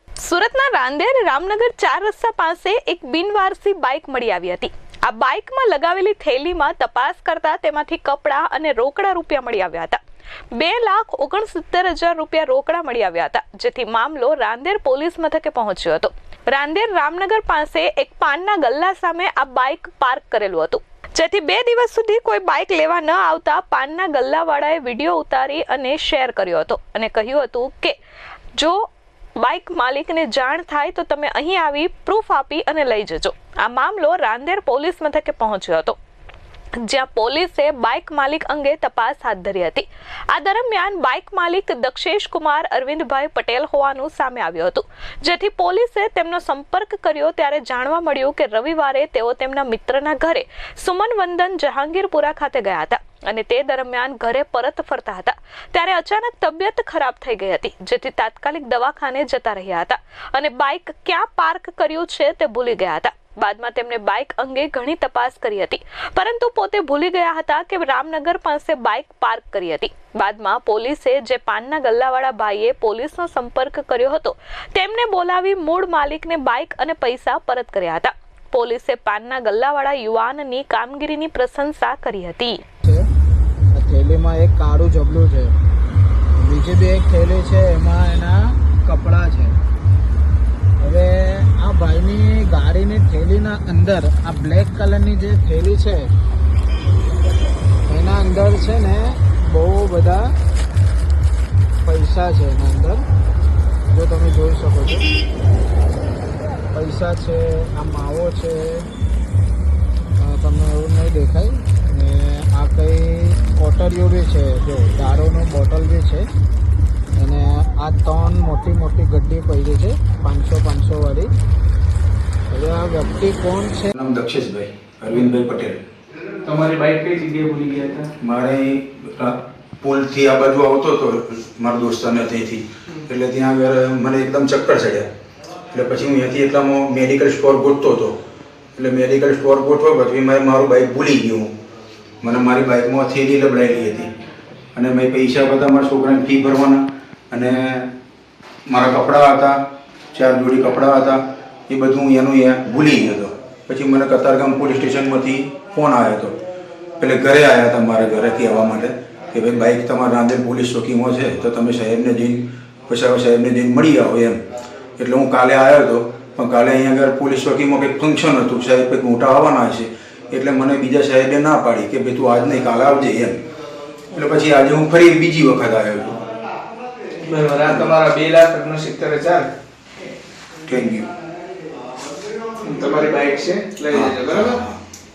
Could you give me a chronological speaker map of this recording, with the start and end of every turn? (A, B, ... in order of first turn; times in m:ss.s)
0:00.2-0:10.0 A
0:10.5-0:28.0 A
0:28.6-0:28.9 A
0:29.4-0:36.0 A
0:36.8-1:22.6 A
1:23.8-1:25.5 B
1:26.4-1:29.6 B
1:30.8-1:36.1 B
1:37.9-1:40.4 B
1:41.8-1:43.0 B
1:43.9-1:45.1 B
1:46.7-1:48.9 B
1:50.2-1:56.3 B
1:57.2-2:01.3 B
2:02.5-2:03.9 B
2:03.9-2:05.8 C
2:06.4-2:08.1 D
2:08.2-2:15.1 C
2:15.7-2:18.2 C
2:18.8-2:21.5 C
2:22.2-2:24.1 C
2:24.8-2:27.9 C
2:28.7-2:29.6 C
2:30.1-2:36.4 C
2:37.0-2:44.4 C
2:45.0-2:53.4 C
2:54.1-2:56.2 C
2:57.2-2:59.5 D
2:57.6-2:57.9 C
3:00.7-3:01.1 C
3:02.6-3:04.6 D
3:03.9-3:04.8 C